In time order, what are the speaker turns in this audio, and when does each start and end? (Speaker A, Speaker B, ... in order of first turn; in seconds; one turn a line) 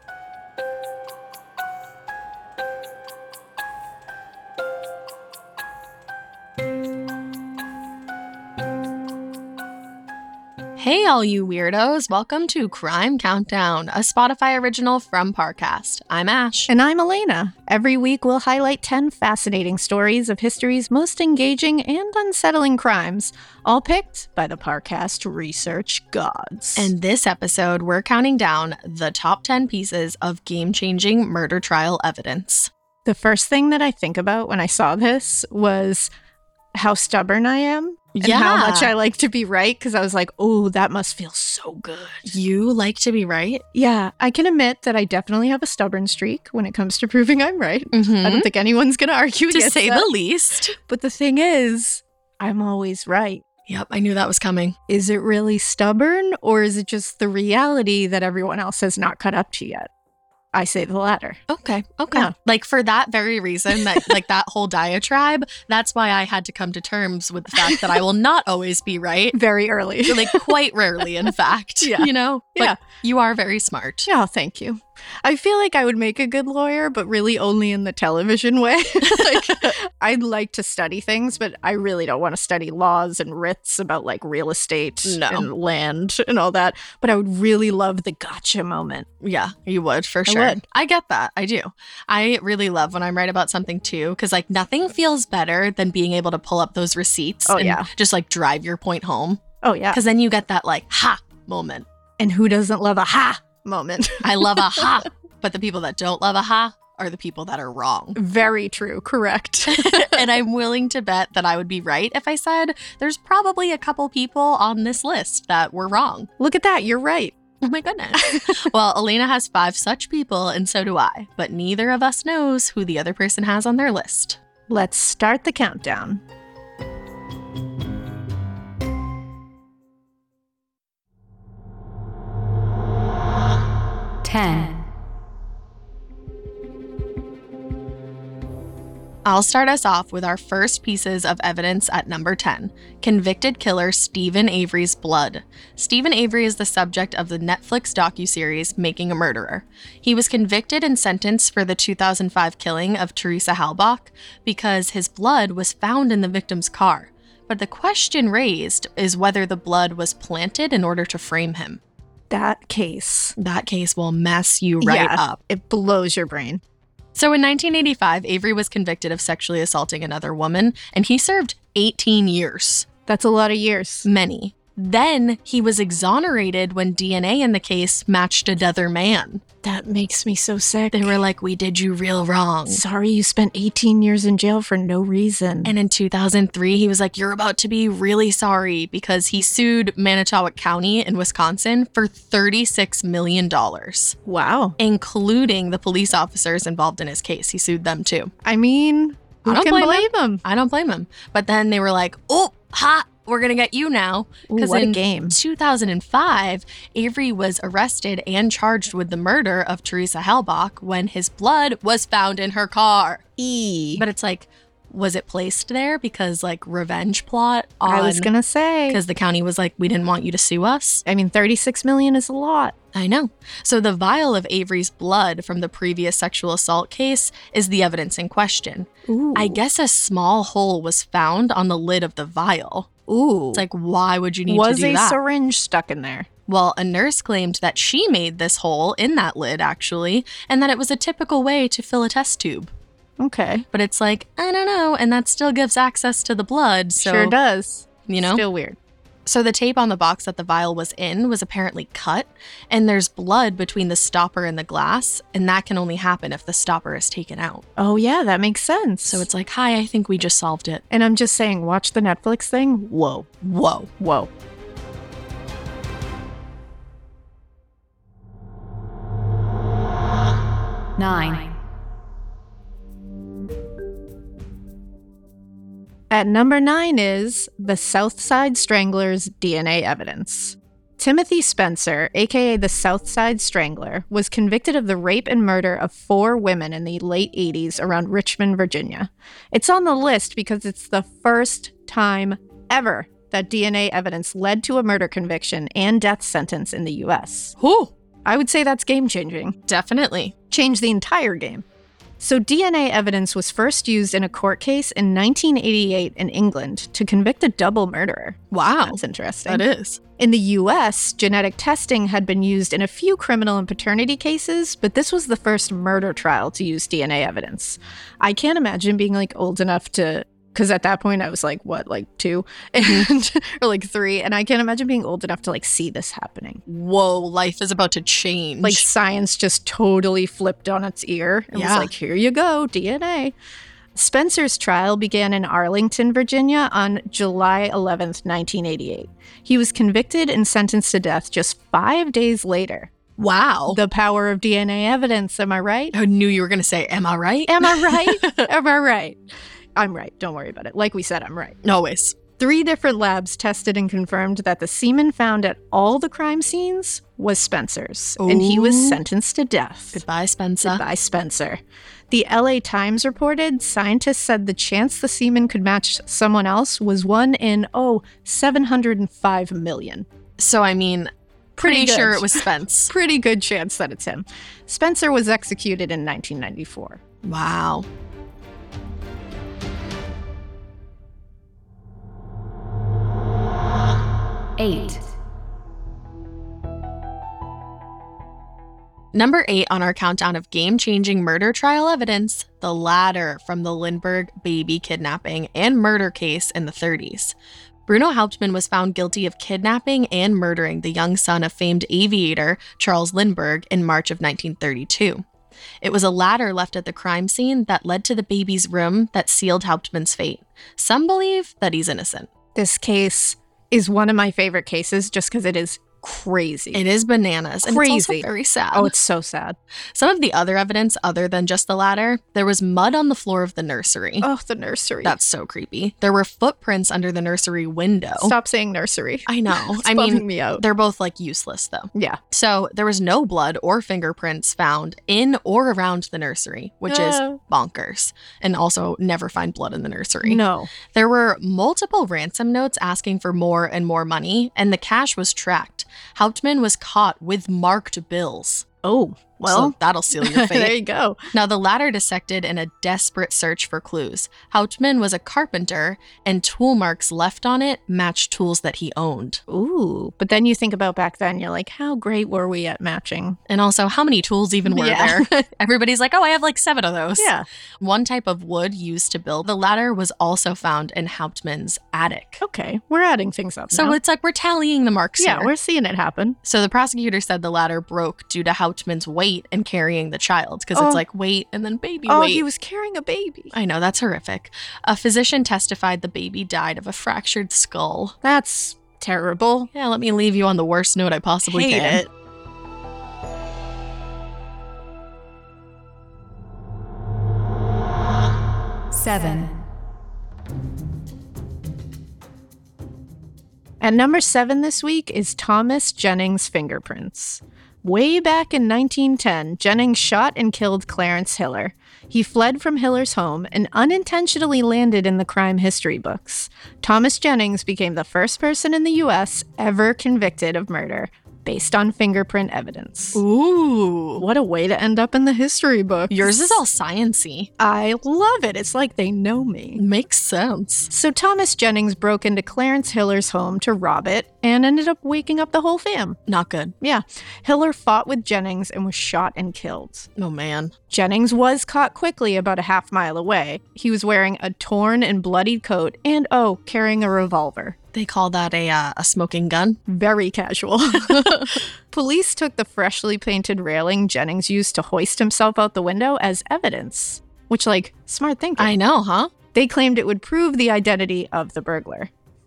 Speaker A: 10.8-16.7
Speaker B: 16.7-26.9
Speaker A: 26.8-32.7
Speaker B: 33.0-36.1
Speaker B: 36.8-42.3
Speaker A: 38.1-38.9
Speaker A: 42.3-43.6
Speaker B: 43.7-50.1
Speaker A: 47.9-48.5
Speaker A: 49.5-50.8
Speaker B: 50.8-53.4
Speaker A: 53.7-54.8
Speaker B: 54.9-59.9
Speaker B: 60.5-61.4
Speaker A: 61.5-69.4
Speaker B: 63.8-64.1
Speaker B: 67.6-67.9
Speaker B: 69.3-70.5
Speaker A: 70.1-74.1
Speaker B: 71.8-72.8
Speaker B: 74.1-89.1
Speaker A: 79.0-79.7
Speaker A: 85.0-85.5
Speaker A: 89.2-101.9
Speaker B: 90.3-90.6
Speaker B: 97.5-97.9
Speaker B: 99.6-100.0
Speaker B: 102.2-104.9
Speaker A: 104.2-108.2
Speaker B: 108.2-110.3
Speaker A: 109.7-116.3
Speaker B: 116.4-117.3
Speaker A: 117.6-124.4
Speaker B: 118.2-118.6
Speaker B: 124.7-126.2
Speaker C: 134.2-134.9
Speaker A: 139.2-161.8
Speaker B: 162.3-163.3
Speaker A: 163.4-165.4
Speaker B: 164.8-166.6
Speaker A: 167.2-172.9
Speaker B: 173.1-174.1
Speaker A: 174.1-179.4
Speaker B: 179.6-181.2
Speaker A: 180.9-182.8
Speaker B: 182.7-185.7
Speaker A: 185.7-194.2
Speaker B: 194.3-194.8
Speaker A: 194.8-198.3
Speaker B: 198.4-200.4
Speaker A: 199.4-213.2
Speaker B: 204.5-205.3
Speaker B: 213.4-214.0
Speaker A: 214.0-218.3
Speaker B: 217.8-219.0
Speaker A: 218.9-221.0
Speaker B: 221.1-222.8
Speaker A: 222.9-232.9
Speaker B: 229.1-229.6
Speaker B: 233.1-233.7
Speaker A: 233.5-235.2
Speaker B: 234.5-236.3
Speaker A: 236.5-242.7
Speaker B: 243.2-243.7
Speaker A: 243.7-247.3
Speaker B: 247.0-248.8
Speaker A: 248.1-248.4
Speaker A: 249.3-257.7
Speaker B: 257.8-259.3
Speaker A: 259.1-260.8
Speaker B: 260.9-263.3
Speaker A: 263.4-263.9
Speaker B: 264.0-264.3
Speaker C: 271.0-271.6
Speaker B: 276.1-297.6
Speaker A: 297.6-297.9
Speaker B: 298.2-299.6
Speaker A: 299.7-300.4
Speaker B: 300.5-301.6
Speaker B: 302.2-309.6
Speaker A: 308.5-310.0
Speaker B: 310.2-326.6
Speaker A: 322.8-323.1
Speaker A: 326.7-328.9
Speaker B: 328.6-333.3
Speaker A: 331.5-331.9
Speaker B: 333.9-342.9
Speaker A: 343.2-343.8
Speaker B: 343.7-345.9
Speaker A: 345.9-348.5
Speaker B: 347.5-349.2
Speaker B: 349.8-351.6
Speaker A: 351.6-352.2
Speaker B: 352.4-360.0
Speaker A: 358.2-359.0
Speaker A: 359.9-360.8
Speaker B: 360.6-361.6
Speaker B: 362.1-370.1
Speaker A: 370.4-372.9
Speaker B: 371.6-377.0
Speaker A: 377.2-377.9
Speaker C: 384.6-385.1
Speaker A: 389.1-397.4
Speaker A: 397.9-405.2
Speaker A: 405.8-412.3
Speaker B: 412.6-416.8
Speaker A: 416.7-418.9
Speaker B: 417.6-419.6
Speaker A: 419.9-424.3
Speaker B: 424.2-425.2
Speaker A: 425.0-428.4
Speaker B: 428.2-430.6
Speaker A: 429.3-440.4
Speaker B: 431.9-432.2
Speaker B: 436.9-437.4
Speaker B: 440.2-440.7
Speaker A: 440.9-448.7
Speaker B: 448.8-451.2
Speaker A: 449.4-450.8
Speaker A: 451.3-459.4
Speaker B: 459.5-463.4
Speaker A: 463.5-472.4
Speaker B: 464.7-465.2
Speaker B: 467.2-467.4
Speaker B: 472.4-474.0
Speaker A: 473.7-475.5
Speaker B: 475.2-476.4
Speaker A: 476.4-482.4
Speaker B: 480.8-481.0
Speaker B: 482.1-483.5
Speaker A: 483.5-488.1
Speaker B: 488.2-489.7
Speaker A: 489.7-492.0
Speaker B: 491.5-492.1
Speaker C: 498.9-499.6
Speaker B: 503.8-523.2
Speaker A: 523.1-524.2
Speaker B: 524.2-526.6
Speaker A: 526.1-527.5
Speaker B: 527.6-529.8
Speaker A: 529.8-530.9
Speaker B: 530.9-536.2
Speaker A: 536.3-536.7
Speaker B: 536.8-540.1
Speaker A: 540.2-540.7
Speaker B: 540.9-547.8
Speaker A: 547.9-549.8
Speaker B: 549.9-558.7
Speaker A: 551.1-551.5
Speaker A: 558.6-559.3
Speaker B: 559.5-562.1